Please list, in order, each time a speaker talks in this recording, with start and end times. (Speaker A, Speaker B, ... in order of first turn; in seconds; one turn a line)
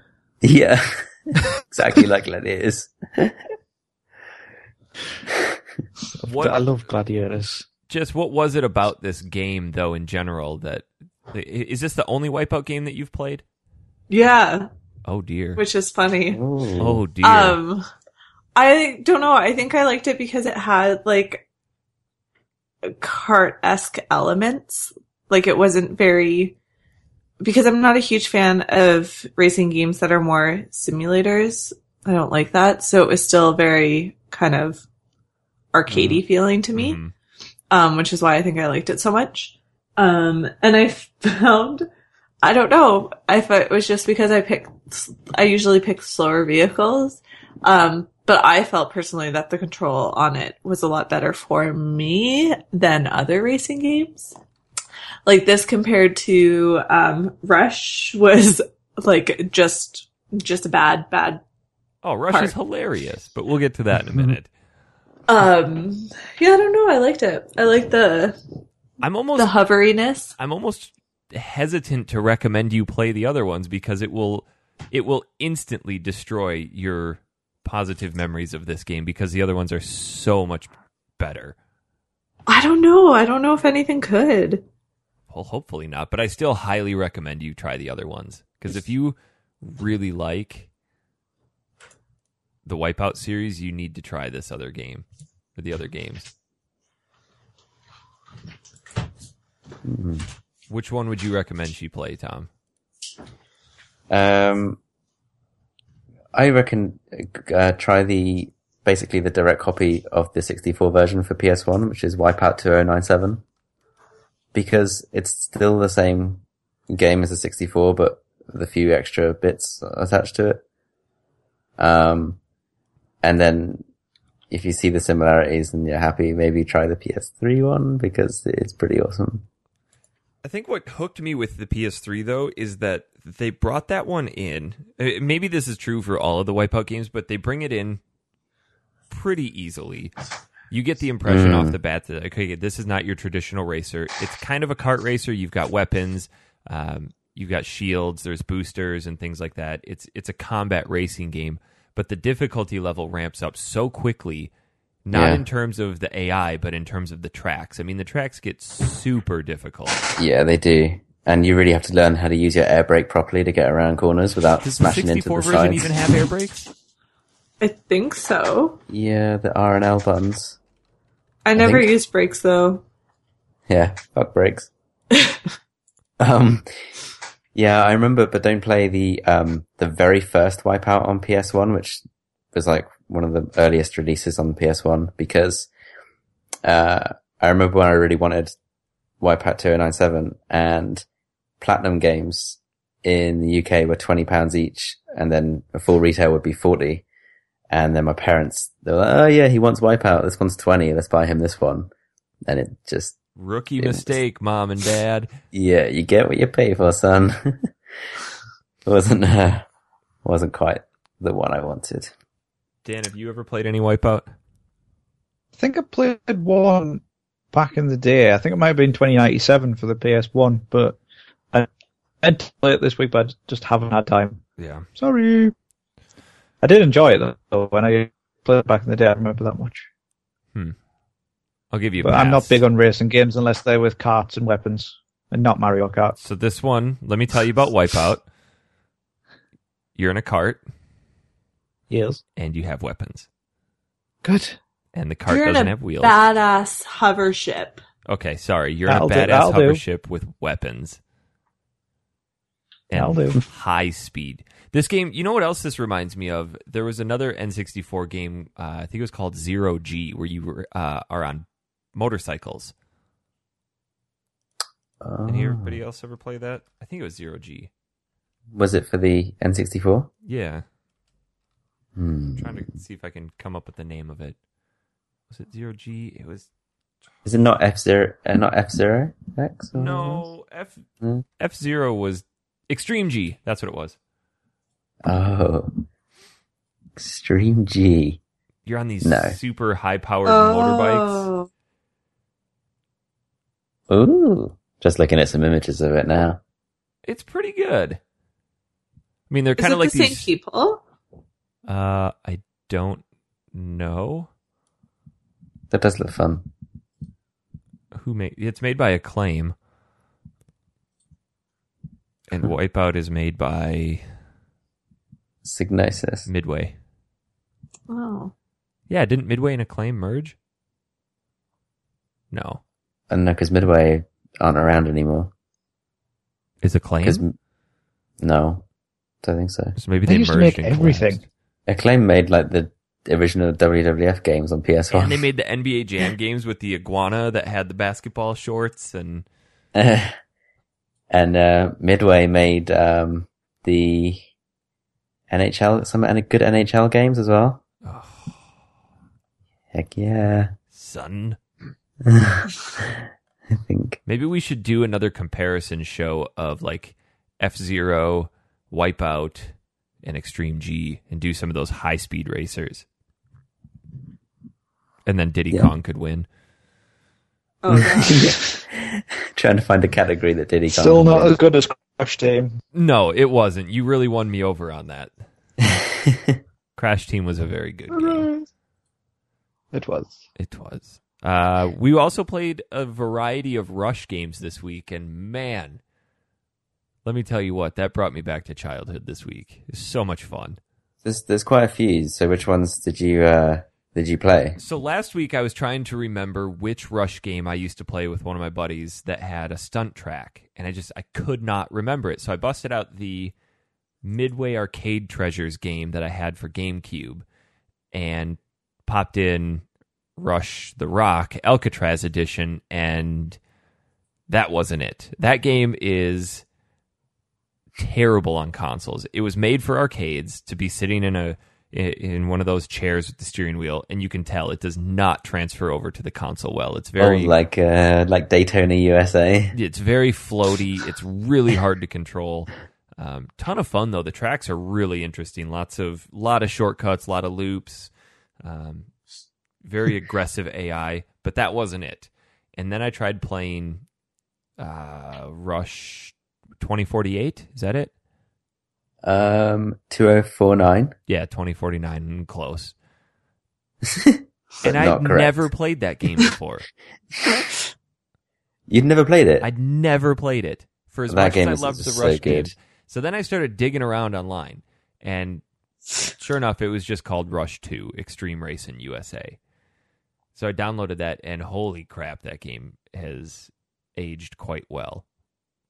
Speaker A: 0.4-3.4
Speaker A: 5.3-5.6
Speaker B: 6.2-7.7
Speaker C: 6.3-6.7
Speaker C: 7.9-13.4
Speaker D: 14.1-14.7
Speaker C: 15.0-15.6
Speaker D: 15.6-16.4
Speaker A: 16.3-17.0
Speaker C: 16.8-17.6
Speaker D: 17.2-17.8
Speaker D: 18.6-21.4
Speaker D: 22.8-26.6
Speaker D: 27.4-34.8
Speaker D: 35.7-37.0
Speaker A: 35.9-36.2
Speaker C: 36.7-37.1
Speaker D: 37.7-41.9
Speaker D: 42.4-54.4
Speaker D: 55.2-61.4
Speaker C: 62.0-64.5
Speaker D: 65.3-68.4
Speaker C: 69.0-69.5
Speaker D: 69.3-70.3
Speaker C: 70.4-81.5
Speaker D: 82.5-84.6
Speaker C: 85.3-90.7
Speaker C: 92.7-95.0
Speaker C: 95.5-96.3
Speaker A: 99.8-100.2
Speaker C: 100.7-102.5
Speaker A: 104.1-104.8
Speaker A: 106.3-113.4
Speaker A: 114.5-120.6
Speaker A: 121.8-122.4
Speaker A: 123.2-123.8
Speaker A: 124.5-129.4
Speaker C: 130.4-138.0
Speaker C: 139.1-140.1
Speaker C: 140.7-154.5
Speaker A: 141.2-141.8
Speaker C: 155.1-160.1
Speaker A: 155.1-155.4
Speaker A: 160.2-165.9
Speaker C: 164.6-166.6
Speaker D: 167.6-168.8
Speaker A: 168.9-170.6
Speaker D: 171.4-172.8
Speaker A: 171.6-171.9
Speaker A: 173.7-174.7
Speaker D: 175.1-175.4
Speaker A: 176.2-176.8
Speaker A: 177.5-185.7
Speaker A: 186.6-188.5
Speaker A: 189.2-191.0
Speaker A: 191.6-197.0
Speaker A: 197.7-201.9
Speaker A: 202.4-203.2
Speaker C: 203.4-205.3
Speaker A: 203.8-204.2
Speaker A: 205.5-207.7
Speaker A: 208.8-209.6
Speaker A: 210.2-212.1
Speaker C: 212.8-214.3
Speaker B: 215.6-221.0
Speaker B: 222.2-224.4
Speaker C: 224.6-224.8
Speaker B: 224.9-225.5
Speaker B: 226.6-229.9
Speaker C: 231.7-232.6
Speaker B: 232.0-236.2
Speaker C: 236.2-238.2
Speaker C: 239.9-240.6
Speaker B: 241.9-242.2
Speaker C: 242.3-243.3
Speaker B: 244.2-244.6
Speaker C: 244.9-246.2
Speaker D: 245.3-247.8
Speaker C: 248.1-251.0
Speaker B: 248.9-249.8
Speaker C: 252.9-262.7
Speaker B: 252.9-253.4
Speaker A: 265.0-265.8
Speaker C: 265.3-267.7
Speaker A: 268.5-270.1
Speaker C: 270.2-270.6
Speaker A: 271.9-272.6
Speaker C: 272.4-274.4
Speaker C: 275.3-276.5
Speaker A: 277.2-280.2
Speaker C: 279.7-280.8
Speaker C: 281.4-284.0
Speaker A: 285.0-285.8
Speaker A: 286.9-288.2
Speaker C: 288.6-291.3
Speaker A: 289.0-289.4
Speaker D: 290.2-291.5
Speaker A: 293.9-296.4
Speaker C: 297.1-298.0
Speaker C: 299.3-300.3
Speaker D: 299.6-300.8
Speaker C: 301.6-303.0
Speaker C: 303.5-304.3
Speaker A: 305.7-306.4
Speaker C: 307.9-309.5
Speaker C: 312.3-314.0
Speaker A: 315.4-316.3
Speaker C: 316.3-316.7
Speaker D: 317.9-318.3
Speaker C: 318.9-320.4
Speaker C: 322.3-322.6
Speaker A: 323.1-325.3
Speaker C: 326.6-327.2
Speaker A: 327.0-327.4
Speaker A: 328.2-328.6
Speaker A: 329.2-329.7
Speaker C: 329.8-331.2
Speaker B: 330.1-331.2
Speaker A: 331.7-335.2
Speaker C: 334.9-339.2
Speaker A: 339.7-340.1
Speaker A: 341.1-344.2
Speaker A: 345.3-347.6
Speaker C: 347.8-348.4
Speaker A: 349.7-350.5
Speaker C: 350.7-351.4
Speaker A: 352.0-354.0
Speaker C: 354.1-359.5
Speaker C: 360.0-362.9
Speaker C: 365.1-366.2
Speaker D: 367.6-368.3
Speaker A: 367.7-371.4
Speaker B: 370.7-372.6
Speaker C: 372.7-375.1
Speaker A: 375.6-376.4
Speaker C: 376.8-378.2
Speaker B: 377.9-378.4
Speaker B: 379.7-380.2
Speaker C: 380.4-385.8
Speaker C: 387.0-390.6
Speaker A: 391.0-394.6
Speaker C: 394.6-403.3
Speaker C: 404.0-407.2
Speaker C: 407.9-409.6
Speaker C: 410.2-413.4
Speaker C: 414.3-416.4
Speaker C: 417.8-427.3
Speaker A: 427.0-429.6
Speaker C: 429.5-437.9
Speaker C: 438.4-438.9
Speaker C: 439.6-443.8
Speaker C: 444.6-447.9
Speaker A: 449.0-450.9
Speaker C: 451.1-452.7
Speaker A: 453.8-455.5
Speaker C: 454.6-456.6
Speaker A: 458.7-459.5
Speaker C: 459.4-465.4
Speaker A: 461.1-462.5
Speaker C: 466.1-469.4
Speaker C: 470.3-475.0